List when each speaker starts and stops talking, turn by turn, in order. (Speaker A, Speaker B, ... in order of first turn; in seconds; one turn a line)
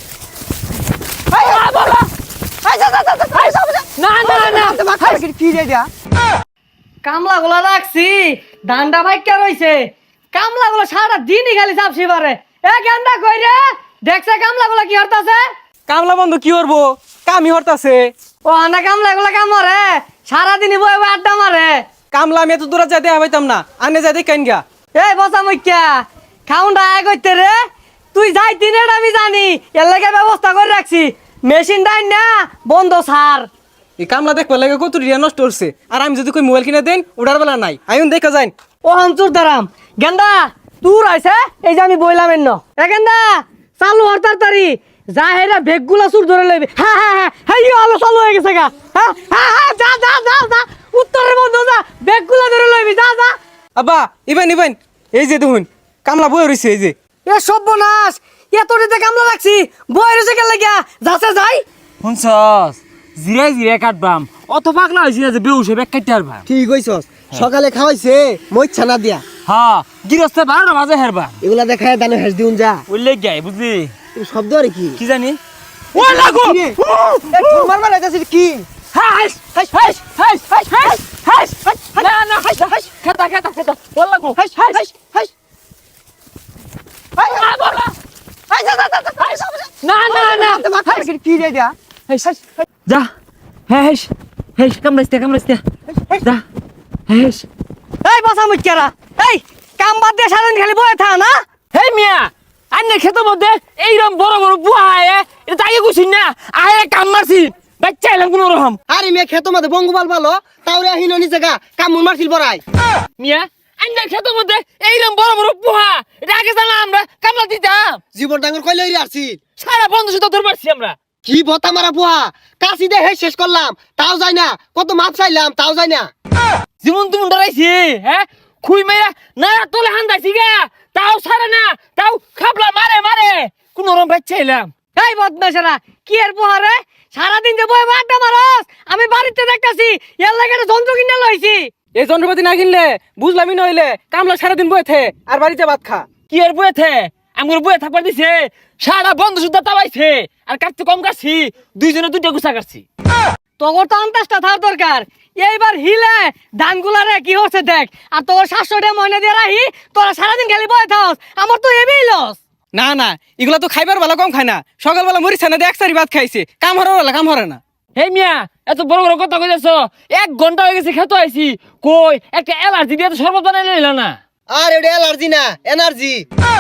Speaker A: 1.3-1.6
Speaker B: 1.3-2.1
Speaker A: 2.6-5.9
Speaker B: 3.3-5.2
Speaker C: 7.0-15.4
Speaker D: 15.9-18.1
Speaker C: 18.4-21.8
Speaker D: 22.1-24.6
Speaker C: 25.0-27.6
Speaker C: 28.1-33.5
Speaker D: 34.0-38.5
Speaker C: 38.8-53.4
Speaker D: 53.8-56.9
Speaker C: 57.3-61.6
Speaker B: 62.0-66.5
Speaker A: 66.5-69.2
Speaker B: 69.5-71.4
Speaker A: 71.4-72.8
Speaker B: 72.9-73.9
Speaker A: 74.2-75.0
Speaker B: 75.0-75.4
Speaker B: 75.9-77.7
Speaker A: 76.0-76.8
Speaker A: 77.3-78.7
Speaker B: 78.9-84.8
Speaker A: 79.5-80.0
Speaker A: 81.7-82.1
Speaker A: 84.3-85.3
Speaker A: 87.2-87.5
Speaker B: 87.2-88.0
Speaker A: 88.5-91.8
Speaker B: 89.2-91.1
Speaker B: 92.1-93.1
Speaker B: 93.7-95.6
Speaker B: 97.1-97.5
Speaker C: 98.0-101.4
Speaker B: 101.7-108.8
Speaker A: 108.9-112.6
Speaker B: 113.2-118.0
Speaker A: 118.1-119.4
Speaker B: 119.6-121.0
Speaker A: 121.2-126.1
Speaker B: 126.8-134.7
Speaker C: 134.9-141.7
Speaker D: 141.9-146.1
Speaker B: 146.3-152.8
Speaker C: 153.6-162.4
Speaker D: 162.7-167.6
Speaker B: 168.0-174.2
Speaker A: 174.5-176.2